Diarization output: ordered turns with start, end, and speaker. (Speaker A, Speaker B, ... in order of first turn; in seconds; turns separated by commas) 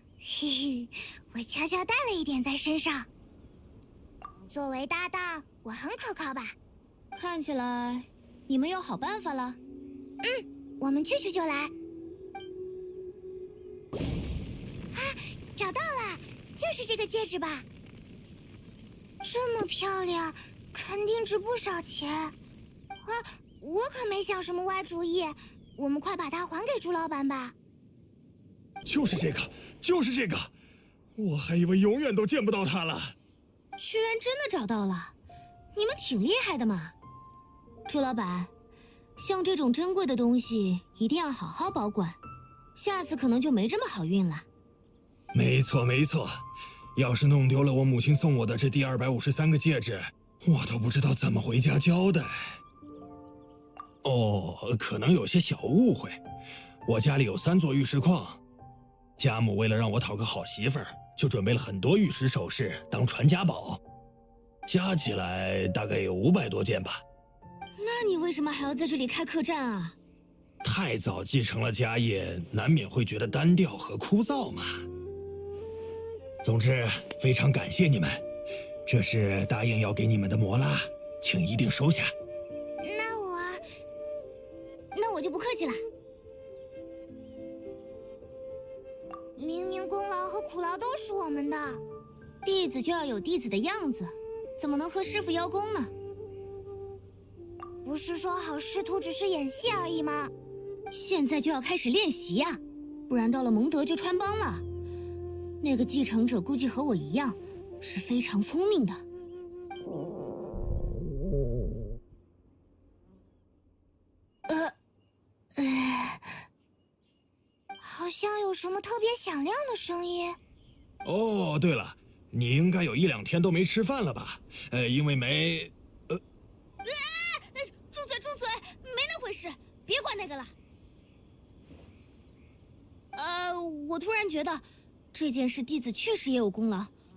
Speaker A: 0.2-3.1, Speaker A: 4.5-6.5, Speaker B: 7.1-9.6, Speaker A: 10.2-11.7, Speaker A: 14.9-17.6, Speaker A: 19.2-22.3, Speaker A: 23.0-27.5, Speaker C: 28.8-30.5, Speaker C: 31.1-33.1, Speaker B: 33.8-35.1, Speaker B: 35.7-36.9, Speaker B: 37.9-38.5, Speaker B: 39.2-42.2, Speaker B: 42.8-44.5, Speaker C: 45.3-46.4, Speaker C: 46.9-52.3, Speaker C: 54.0-56.2, Speaker C: 56.9-58.4, Speaker C: 59.2-63.8, Speaker C: 64.7-67.0, Speaker B: 67.8-70.0, Speaker C: 70.6-74.8, Speaker C: 76.4-78.2, Speaker C: 78.8-82.1, Speaker A: 82.8-83.6, Speaker B: 84.9-85.8, Speaker A: 89.3-91.8, Speaker B: 92.4-95.9, Speaker A: 97.8-100.3, Speaker B: 100.9-104.6, Speaker B: 105.6-109.0, Speaker B: 114.5-114.7, Speaker B: 115.5-116.3, Speaker A: 117.8-120.4, Speaker C: 121.0-126.2, Speaker B: 126.8-130.5, Speaker B: 133.2-136.9